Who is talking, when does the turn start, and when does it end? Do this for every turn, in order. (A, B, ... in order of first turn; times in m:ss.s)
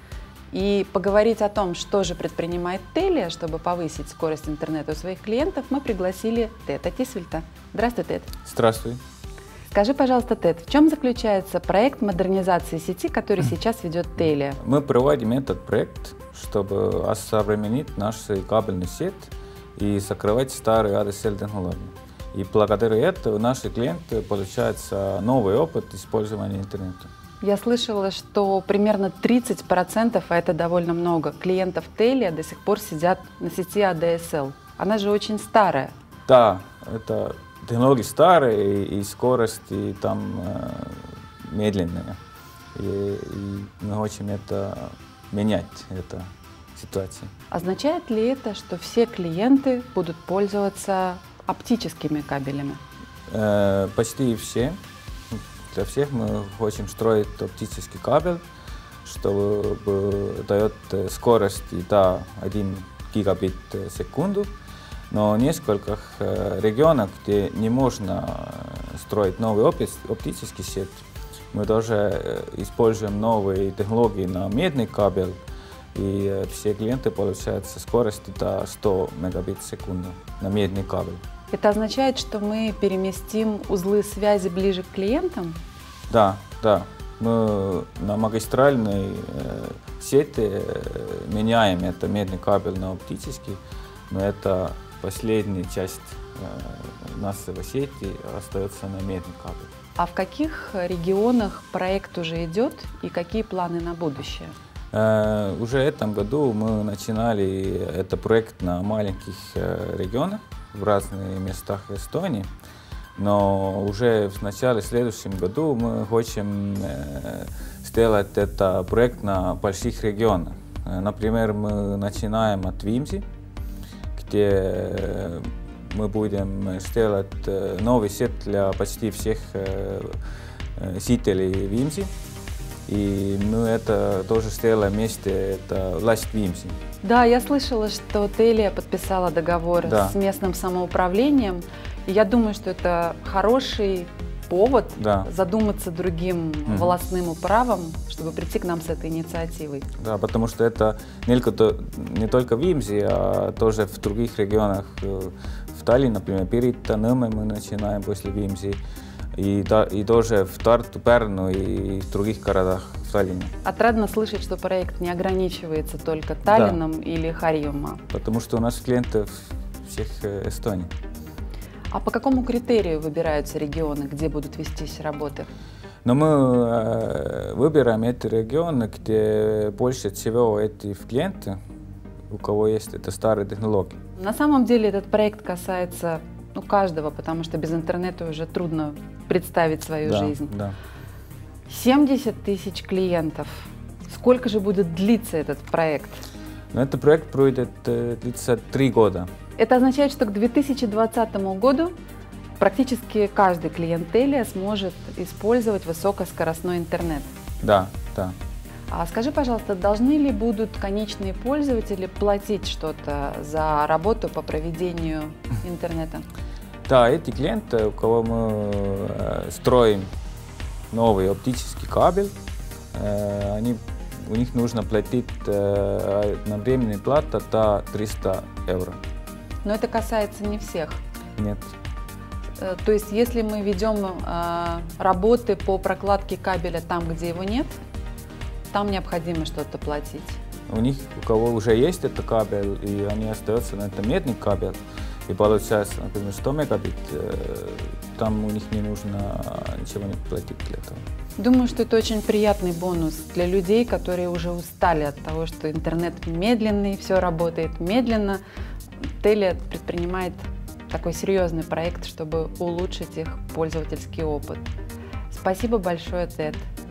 0:00.5-0:08.3 A
0:08.4-0:09.0 B
0:09.7-0:14.6 A
0:14.6-0:27.1 B
0:27.4-0:35.9 A
0:36.3-0:42.2 B
0:42.7-0:47.3 B
0:47.5-0:52.8 A
0:53.3-0:54.8 B
0:55.7-0:58.4 B
0:59.0-1:04.5 B
1:05.1-1:15.4 B
1:15.9-1:21.2 B
1:21.5-1:25.6 A
1:26.1-1:39.7 B
1:40.0-1:44.5 A
1:44.9-1:52.5 B
1:53.2-2:03.2 B
2:04.1-2:10.2 B
2:10.8-2:12.1 B
2:12.9-2:16.8 B
2:17.0-2:29.9 A
2:19.8-2:20.2 B
2:25.0-2:25.3 B
2:26.7-2:27.0 B
2:30.0-2:38.8 B
2:39.3-2:43.5 B
2:43.6-2:48.0 A
2:46.5-2:46.8 B
2:48.1-2:50.9 B
2:51.9-2:55.5 A
2:56.0-3:01.6 B
3:02.3-3:04.0 B
3:04.2-3:10.5 A
3:10.0-3:10.7 B
3:11.7-3:16.2 A
3:16.7-3:19.3 B
3:19.6-3:21.9 A
3:22.6-3:27.3 A
3:27.6-3:28.4 B
3:28.9-3:36.2 A
3:36.9-3:40.1 B
3:40.9-3:42.3 B
3:42.9-3:49.0 B
3:49.6-3:51.0 A
3:51.4-3:51.7 B
3:52.6-3:57.8 A
3:58.7-4:00.4 A
4:00.7-4:11.0 B
4:11.4-4:18.4 A
4:19.2-4:24.7 A
4:25.3-4:26.7 A